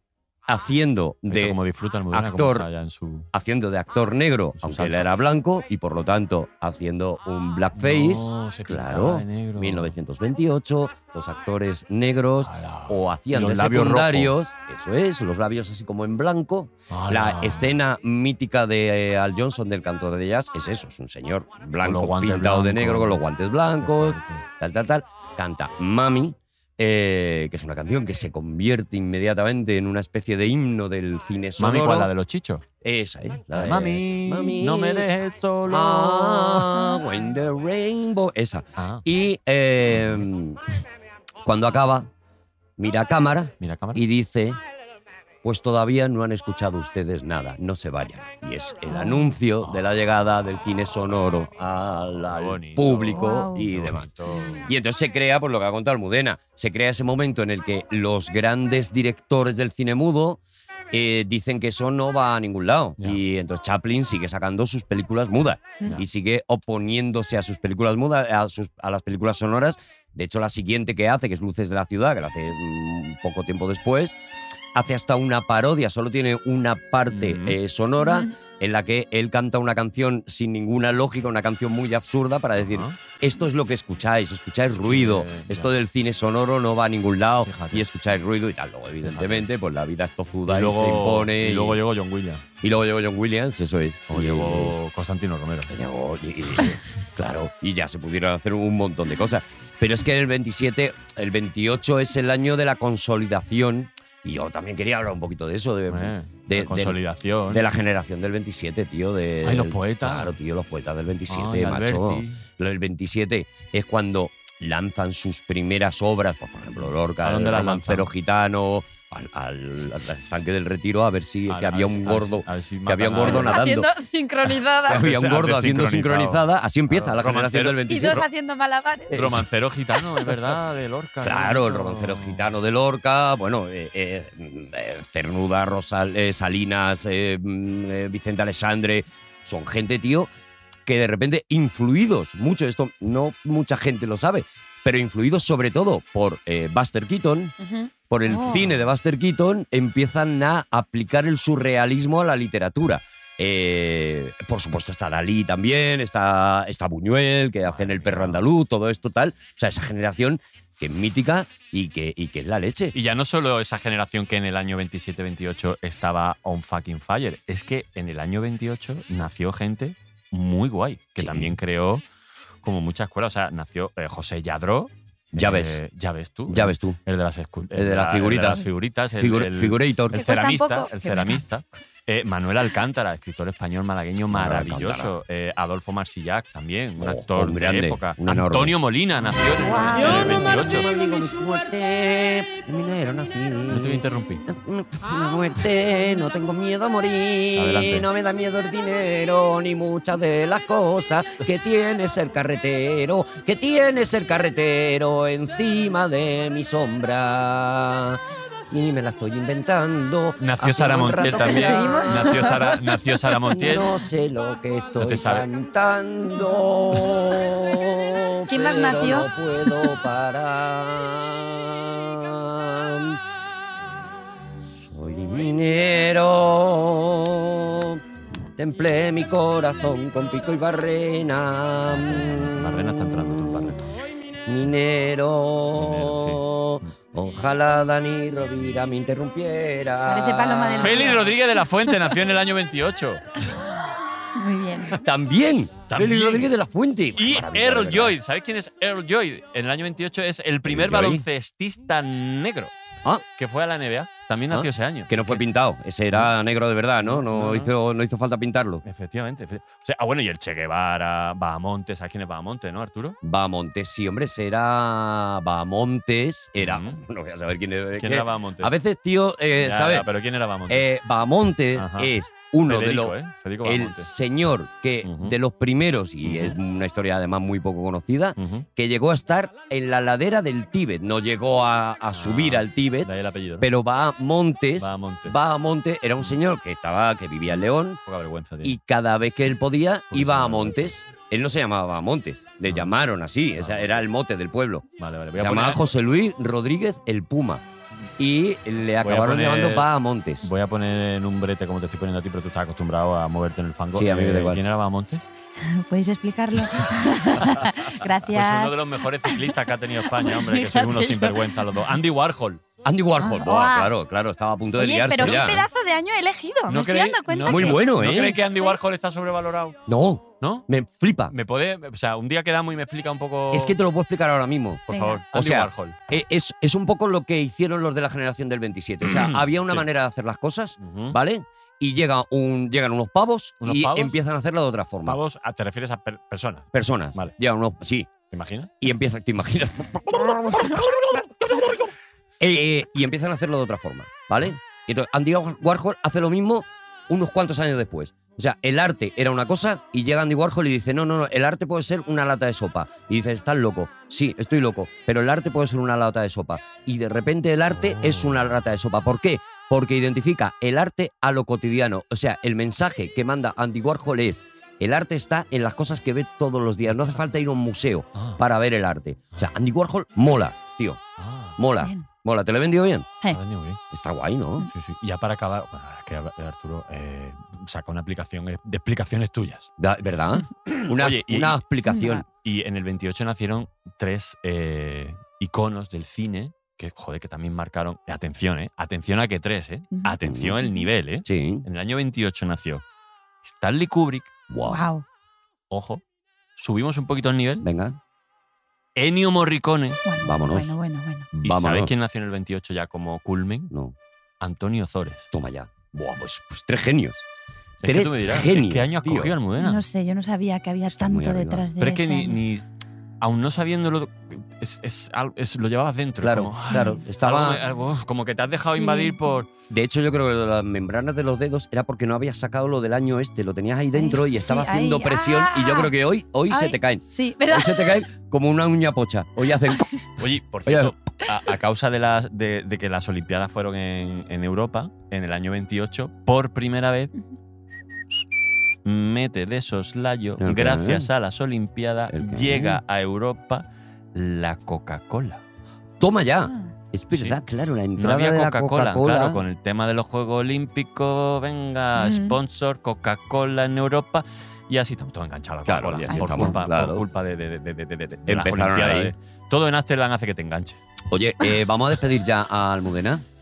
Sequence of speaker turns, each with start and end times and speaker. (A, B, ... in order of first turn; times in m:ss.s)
0:00.5-0:01.6 A
0:01.3-0:03.3 B
0:02.1-0:02.7 A
0:03.3-0:32.1 A
0:04.6-0:05.1 B
0:07.7-0:09.9 B
0:12.4-0:14.4 B
0:16.9-0:17.7 B
0:21.8-0:23.2 B
0:23.8-0:24.4 B
0:31.6-0:32.6 B
0:32.8-0:35.1 A
0:33.5-0:36.9 B
0:35.6-0:40.6 A
0:38.8-0:39.0 B
0:41.4-0:42.1 A
0:42.8-0:44.6 A
0:43.6-0:44.0 B
0:45.4-1:00.4 A
0:48.9-0:49.2 C
0:52.3-0:54.7 B
0:53.1-0:53.7 C
0:54.3-0:54.6 C
1:00.9-1:14.2 A
1:14.7-1:31.8 A
1:17.1-1:17.6 B
1:22.6-1:23.0 B
1:24.7-1:25.7 B
1:27.4-1:27.9 B
1:29.0-1:29.5 B
1:30.5-1:32.4 B
1:32.6-1:34.7 A
1:34.1-1:35.7 B
1:35.7-2:03.9 A
1:45.9-1:47.6 B
1:49.4-1:50.4 B
1:51.3-1:52.4 B
1:57.2-1:58.1 B
2:01.5-2:03.6 B
2:03.2-2:05.0 C
2:04.8-2:08.3 A
2:04.9-2:08.2 B
2:07.9-2:09.2 C
2:09.1-2:09.4 A
2:09.1-2:12.5 B
2:11.2-2:20.3 A
2:20.8-2:27.6 A
2:27.6-2:28.6 C
2:28.1-2:42.9 A
2:37.7-2:38.4 B
2:42.9-2:52.0 B
2:51.2-2:51.6 A
2:52.6-3:10.9 B
2:55.3-2:55.8 A
2:56.5-2:57.0 A
2:57.7-2:58.7 A
2:59.2-3:00.3 A
3:00.1-3:01.4 C
3:04.3-3:05.1 A
3:07.0-3:08.8 A
3:09.7-3:10.4 C
3:09.9-3:32.6 A
3:13.7-3:14.4 B
3:17.6-3:18.1 B
3:30.4-3:33.9 B
3:31.3-3:33.6 C
3:33.6-3:43.2 A
3:35.0-3:35.4 B
3:38.5-3:40.0 C
3:44.7-3:48.0 A
3:48.6-3:53.8 A
3:52.1-3:53.9 B
3:54.4-4:01.2 A
3:55.8-3:56.4 B
4:00.1-4:01.3 C
4:00.8-4:03.5 B
4:04.4-4:05.0 C
4:04.9-4:08.2 A
4:05.9-4:06.5 B
4:07.2-4:12.7 B
4:10.7-4:11.3 A
4:13.4-4:15.4 B
4:14.5-4:18.8 A
4:17.1-4:17.7 B
4:18.8-4:23.2 B
4:23.2-4:30.1 A
4:26.6-4:27.0 B
4:28.0-4:28.7 B
4:29.6-4:30.9 B
4:30.7-4:48.0 A
4:31.7-4:32.1 B
4:32.6-4:34.1 B
4:35.0-4:35.4 B
4:36.2-4:36.6 B
4:38.4-4:38.6 B
4:42.1-4:43.7 B
4:44.8-4:45.4 B
4:48.1-4:48.8 B
4:48.6-4:57.6 A
4:50.1-4:51.0 B
4:52.6-4:52.9 B
4:53.6-4:54.1 B
4:55.0-4:55.9 B
4:58.2-5:00.5 A
4:59.0-4:59.9 B
5:00.4-5:05.3 B
5:03.9-5:04.6 A
5:05.6-5:09.4 C
5:07.4-5:12.6 B
5:10.2-5:11.5 C
5:12.8-5:15.6 A
5:13.2-5:13.9 C
5:14.8-5:18.8 C
5:16.7-5:19.8 B
5:17.5-5:18.4 A
5:19.9-5:21.3 A
5:20.4-5:20.7 B
5:21.3-5:23.8 B
5:23.5-5:35.2 A
5:24.9-5:25.2 C
5:24.9-5:26.0 B
5:29.0-5:29.9 B
5:30.8-5:31.2 B
5:33.6-5:34.2 B
5:35.1-5:37.4 B
5:36.7-5:38.1 A
5:38.3-5:38.7 B
5:38.8-5:41.0 A
5:40.6-5:41.9 B
5:42.4-6:11.0 A
6:06.9-6:07.2 B
6:08.2-6:08.4 B
6:11.2-6:11.6 B
6:11.6-6:13.1 A
6:11.8-6:12.1 C
6:13.3-6:13.8 B
6:13.9-6:14.7 A
6:14.7-6:19.7 B
6:19.8-6:22.2 A
6:20.7-6:21.6 B
6:21.9-6:22.2 C
6:22.4-6:32.8 B
6:30.2-6:30.6 A
6:31.2-6:31.6 A
6:33.4-6:34.3 B
6:34.5-6:34.9 A
6:34.6-6:35.0 C
6:35.7-6:36.0 B
6:36.6-6:37.6 B
6:37.6-6:38.0 A
6:39.0-6:40.0 B
6:40.0-6:41.3 C
6:40.2-6:40.8 A
6:41.3-6:41.9 A
6:41.4-6:43.7 B
6:43.7-6:44.0 A
6:44.4-6:45.3 B
6:45.3-6:47.3 A
6:47.8-6:49.8 B
6:47.8-6:49.3 A
6:49.6-6:52.4 C
6:50.9-6:51.7 A
6:51.8-6:52.6 B
6:53.2-6:59.5 B
6:56.2-6:57.6 A
6:56.7-6:57.0 C
6:58.7-6:59.2 C
6:59.7-7:09.9 A
7:03.9-7:05.9 C
7:06.5-7:08.0 C
7:10.2-7:17.1 B
7:10.6-7:10.9 A
7:18.8-7:25.4 B
7:20.4-7:21.1 A
7:22.1-7:22.8 A
7:26.0-7:29.4 A
7:27.1-7:27.4 B
7:27.9-7:40.8 B
7:32.0-7:32.4 C
7:35.6-7:37.0 A
7:36.1-7:36.6 C
7:38.3-7:39.1 A
7:41.1-7:43.2 A